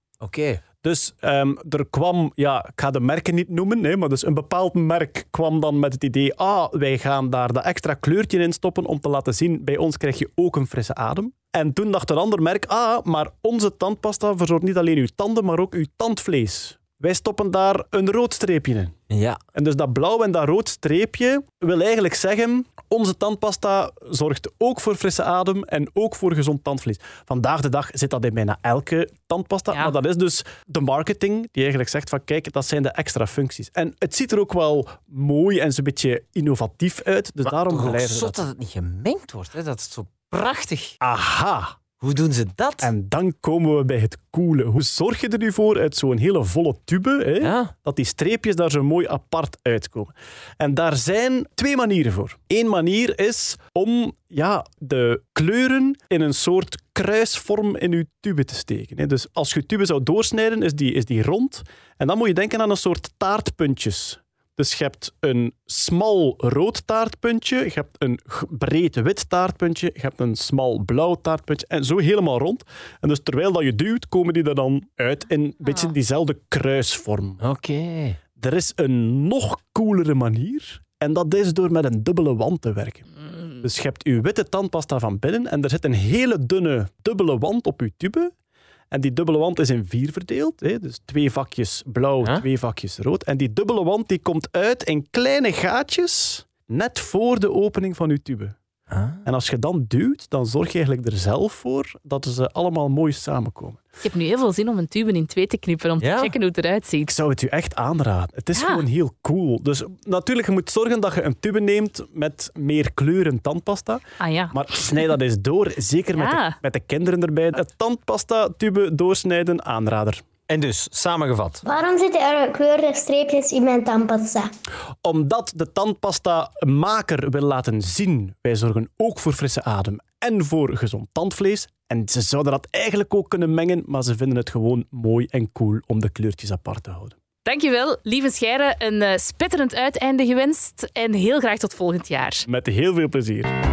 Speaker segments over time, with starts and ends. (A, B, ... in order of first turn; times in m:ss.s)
0:00.2-0:00.6 A
0:00.8-0:19.0 B
0:19.1-0:19.4 A
0:19.5-0:38.4 B
0:37.4-0:40.9 A
0:41.0-0:41.8 B
0:42.0-0:42.9 A
0:42.8-1:17.4 B
0:47.4-0:47.7 A
1:17.4-1:18.2 A
1:18.4-1:28.3 B
1:28.9-1:38.6 B
1:38.9-1:39.2 A
1:39.2-1:43.8 B
1:44.0-1:47.1 C
1:46.0-1:46.3 A
1:47.0-2:00.2 B
1:48.5-1:48.8 C
1:54.2-1:54.5 C
1:56.1-1:56.6 C
2:00.5-2:01.6 A
2:01.6-2:04.5 D
2:05.0-2:17.1 B
2:17.4-2:22.4 C
2:22.4-2:23.5 B